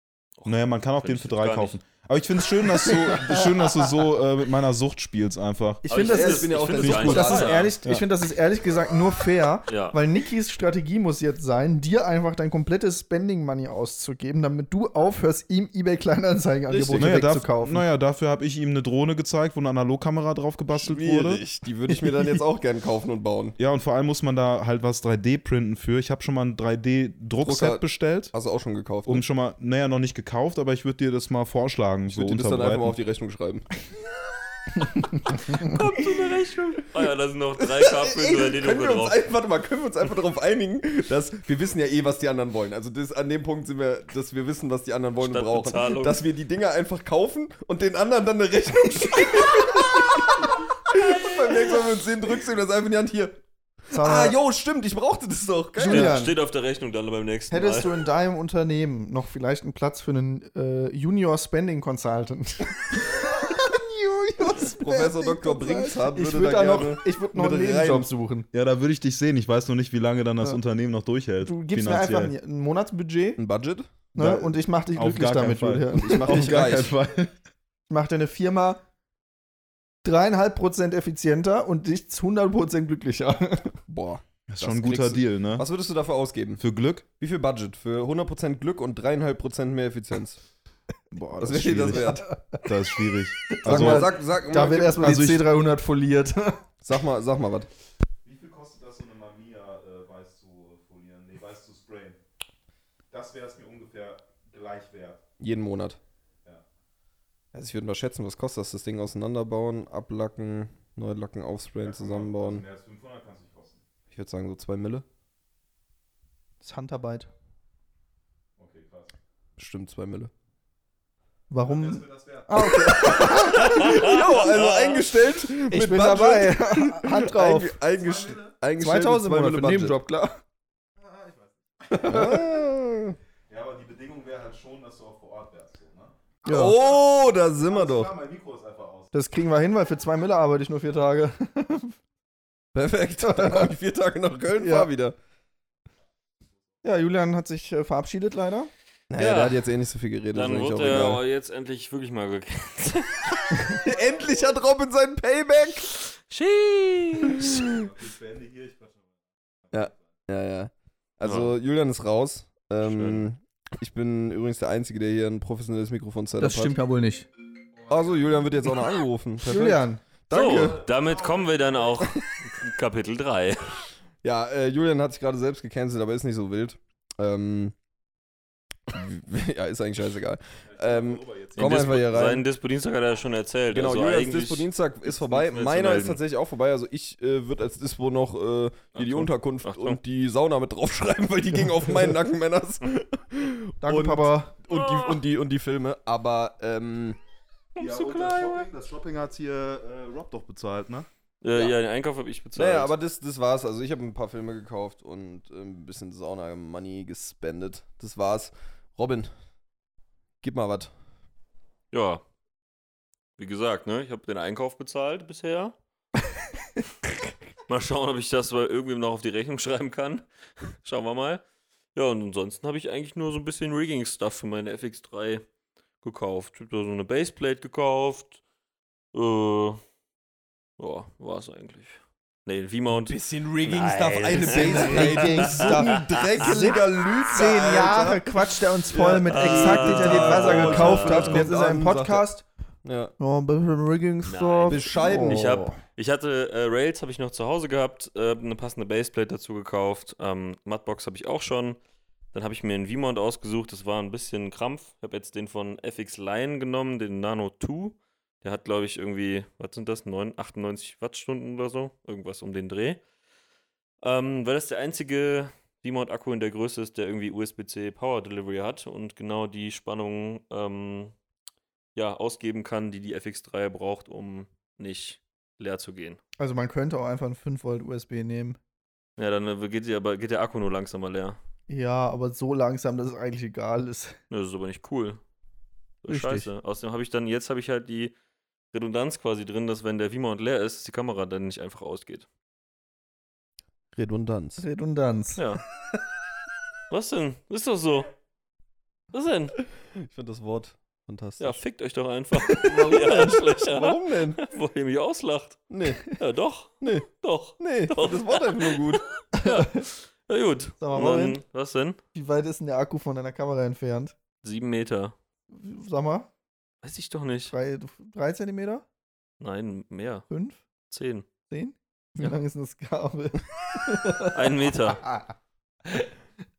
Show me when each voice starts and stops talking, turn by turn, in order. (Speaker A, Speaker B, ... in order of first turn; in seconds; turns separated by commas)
Speaker A: 0.4-1.8, Speaker B: 0.4-5.9, Speaker C: 2.8-3.5, Speaker C: 5.8-17.9, Speaker D: 5.9-7.7, Speaker A: 5.9-7.7, Speaker B: 6.8-8.0, Speaker A: 9.7-10.0, Speaker D: 16.7-17.2, Speaker B: 17.0-21.4, Speaker D: 20.7-23.6, Speaker B: 23.6-28.3, Speaker D: 27.4-29.2, Speaker B: 29.1-33.0, Speaker D: 32.1-33.7, Speaker A: 35.2-39.2, Speaker D: 37.7-53.4, Speaker A: 45.2-46.2, Speaker C: 53.9-54.4, Speaker D: 53.9-56.2, Speaker C: 55.8-56.3, Speaker A: 55.8-58.0, Speaker C: 57.5-68.5, Speaker D: 64.5-68.1, Speaker B: 68.5-72.3, Speaker C: 71.4-73.4, Speaker D: 73.4-74.0, Speaker C: 74.1-76.9, Speaker B: 74.1-77.3, Speaker D: 76.0-76.9, Speaker C: 77.9-78.8, Speaker C: 80.0-83.8, Speaker D: 83.9-86.6, Speaker B: 84.5-85.7, Speaker B: 86.6-87.0, Speaker D: 87.2-90.4, Speaker B: 91.1-94.2, Speaker D: 91.4-92.3, Speaker C: 91.9-92.7, Speaker C: 93.5-96.6, Speaker D: 93.6-95.2, Speaker B: 94.8-95.5, Speaker D: 96.8-97.7, Speaker B: 98.2-102.2, Speaker B: 103.1-105.2, Speaker D: 105.4-106.0, Speaker D: 107.5-112.6, Speaker B: 111.8-113.8, Speaker D: 114.1-115.0, Speaker C: 116.6-117.3, Speaker B: 118.6-119.1, Speaker D: 119.6-120.3, Speaker C: 121.5-123.9, Speaker B: 121.6-123.5, Speaker D: 122.5-130.0, Speaker A: 123.6-125.1, Speaker C: 125.7-127.8, Speaker B: 128.0-128.5, Speaker C: 128.8-130.4, Speaker B: 131.0-132.2, Speaker C: 131.9-132.4, Speaker D: 132.0-133.2, Speaker B: 133.5-136.1, Speaker C: 136.4-136.8, Speaker D: 136.4-138.1, Speaker B: 137.6-139.1, Speaker C: 139.1-141.9, Speaker D: 142.7-145.2, Speaker C: 143.3-143.7, Speaker C: 144.6-144.9, Speaker C: 146.8-148.7, Speaker D: 149.1-151.2, Speaker A: 149.2-149.7, Speaker A: 150.3-153.4, Speaker D: 153.6-155.9, Speaker A: 156.1-157.7, Speaker D: 157.3-157.8, Speaker B: 157.6-159.1, Speaker B: 159.7-160.0, Speaker D: 159.7-166.8, Speaker A: 161.2-161.6, Speaker A: 162.8-163.2, Speaker C: 166.4-167.3, Speaker D: 167.9-170.9, Speaker C: 169.4-170.0, Speaker A: 170.3-173.8, Speaker D: 174.2-177.7, Speaker D: 178.9-182.4, Speaker B: 180.7-182.1, Speaker A: 181.6-186.2, Speaker D: 183.7-197.2, Speaker A: 188.9-190.0, Speaker C: 193.8-194.5, Speaker A: 194.7-195.2, Speaker A: 197.7-198.7, Speaker B: 197.8-201.1, Speaker A: 201.4-202.9, Speaker D: 202.6-209.3, Speaker D: 210.4-210.9, Speaker A: 211.9-212.2, Speaker A: 213.4-215.7, Speaker A: 217.7-221.4, Speaker A: 221.9-225.4, Speaker A: 226.0-228.4, Speaker A: 229.1-229.8, Speaker A: 230.8-237.2, Speaker D: 233.1-238.2, Speaker C: 234.3-242.4, Speaker D: 238.9-242.2, Speaker A: 239.3-241.5, Speaker D: 242.8-243.1, Speaker C: 243.2-245.8, Speaker A: 244.2-251.8, Speaker D: 244.7-245.6, Speaker A: 252.3-263.0, Speaker A: 264.0-271.1, Speaker A: 271.9-276.2, Speaker C: 276.4-278.6, Speaker A: 279.2-281.4, Speaker C: 281.7-284.1, Speaker A: 284.3-285.2, Speaker A: 286.0-288.1, Speaker C: 286.1-286.5, Speaker A: 288.7-292.3, Speaker D: 293.9-294.6, Speaker C: 294.6-295.4, Speaker A: 295.4-295.6, Speaker A: 296.9-298.1, Speaker A: 299.1-299.6, Speaker D: 300.0-301.6, Speaker A: 301.4-312.0, Speaker D: 302.6-304.4, Speaker D: 305.7-306.1, Speaker D: 306.8-307.1, Speaker D: 307.6-309.0, Speaker C: 309.4-309.8, Speaker C: 310.8-311.4, Speaker C: 312.1-314.1, Speaker A: 314.4-315.1, Speaker C: 315.5-316.3, Speaker A: 316.8-317.5, Speaker C: 317.5-318.8, Speaker A: 319.4-320.3, Speaker C: 320.3-320.6, Speaker A: 320.9-321.2, Speaker C: 321.5-324.4, Speaker A: 324.3-325.0, Speaker C: 325.0-325.3